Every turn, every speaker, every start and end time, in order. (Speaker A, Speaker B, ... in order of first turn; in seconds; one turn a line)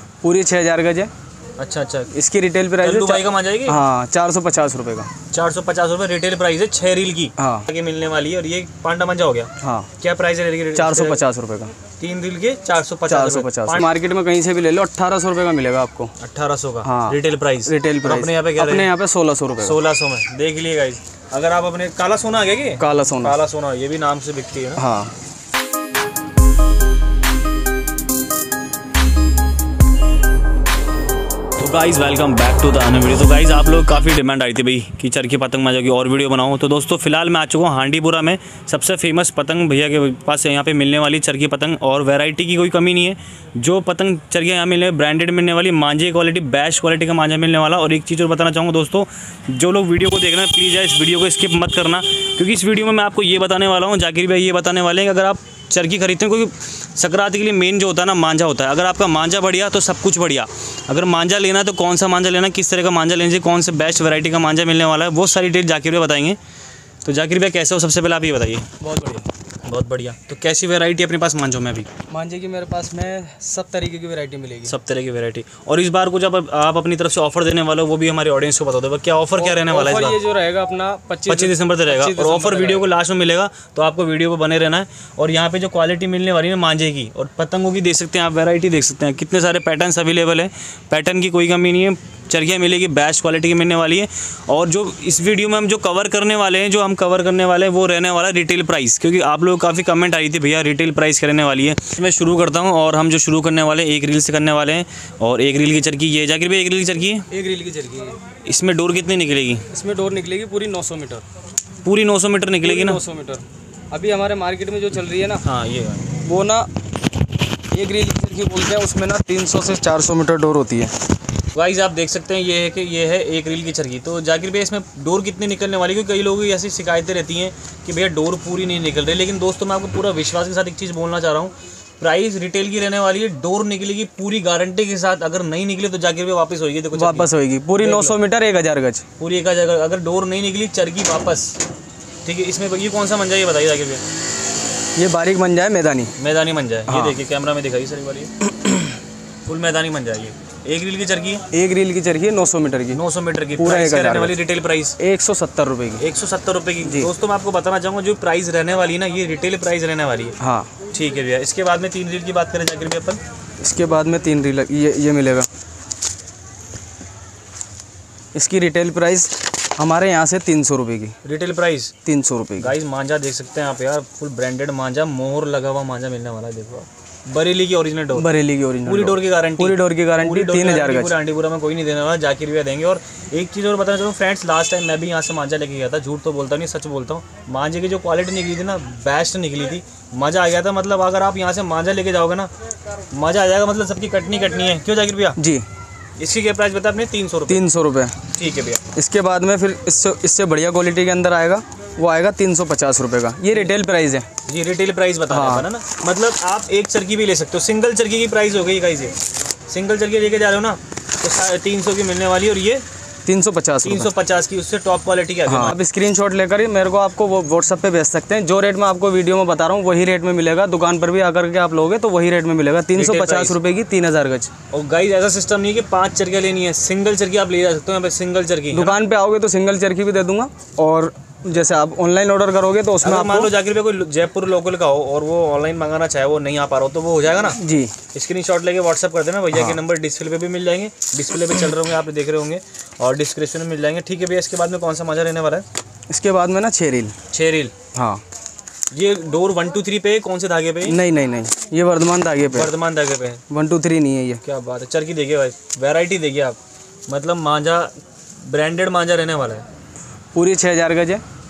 Speaker A: 0.2-1.1
Speaker B: 1.6-2.1
Speaker A: 2.1-5.1
Speaker B: 2.8-3.8
Speaker B: 5.3-11.2
Speaker A: 7.4-7.7
Speaker A: 9.6-9.9
Speaker A: 10.7-11.7
Speaker B: 12.0-13.9
Speaker A: 13.1-16.1
Speaker B: 16.2-18.9
Speaker A: 16.8-19.8
Speaker B: 19.6-24.8
Speaker A: 22.8-23.4
Speaker A: 24.8-25.1
Speaker B: 31.6-66.4
Speaker B: 67.0-68.7
Speaker A: 68.8-69.3
Speaker B: 69.6-71.9
Speaker A: 72.1-74.7
Speaker B: 74.7-80.2
Speaker A: 79.4-82.9
Speaker B: 81.3-107.3
Speaker A: 107.3-108.2
Speaker B: 108.4-109.7
Speaker A: 109.7-111.2
Speaker B: 111.8-113.0
Speaker A: 112.6-115.4
Speaker B: 115.4-116.1
Speaker A: 116.2-116.7
Speaker A: 117.7-120.9
Speaker B: 121.5-138.2
Speaker A: 136.9-139.0
Speaker B: 139.2-141.6
Speaker B: 142.2-144.0
Speaker A: 144.9-146.1
Speaker B: 146.2-148.3
Speaker A: 146.9-147.2
Speaker A: 148.5-148.9
Speaker B: 149.4-151.4
Speaker A: 151.5-153.0
Speaker B: 152.9-155.0
Speaker A: 153.6-154.3
Speaker A: 155.0-156.0
Speaker B: 156.0-160.3
Speaker A: 156.8-157.1
Speaker A: 160.4-160.7
Speaker B: 160.9-163.2
Speaker A: 163.6-165.5
Speaker A: 168.3-171.1
Speaker B: 171.2-171.9
Speaker A: 172.0-172.7
Speaker B: 172.6-178.3
Speaker A: 178.1-181.2
Speaker B: 178.8-192.5
Speaker B: 193.1-195.4
Speaker A: 195.4-195.7
Speaker B: 196.2-197.6
Speaker A: 197.5-198.2
Speaker B: 198.3-198.8
Speaker A: 198.9-204.3
Speaker B: 204.4-209.1
Speaker A: 205.3-205.7
Speaker B: 209.7-212.8
Speaker A: 213.2-214.1
Speaker B: 213.8-215.8
Speaker A: 215.5-224.5
Speaker B: 222.9-223.6
Speaker B: 224.7-229.0
Speaker A: 228.7-233.5
Speaker B: 233.0-237.6
Speaker A: 237.5-237.9
Speaker B: 238.1-245.6
Speaker A: 239.5-239.8
Speaker A: 246.1-247.1
Speaker B: 247.3-247.7
Speaker A: 247.9-248.2
Speaker B: 248.9-251.0
Speaker A: 250.8-252.7
Speaker B: 252.5-253.4
Speaker A: 253.5-254.4
Speaker B: 254.4-259.6
Speaker A: 260.3-261.2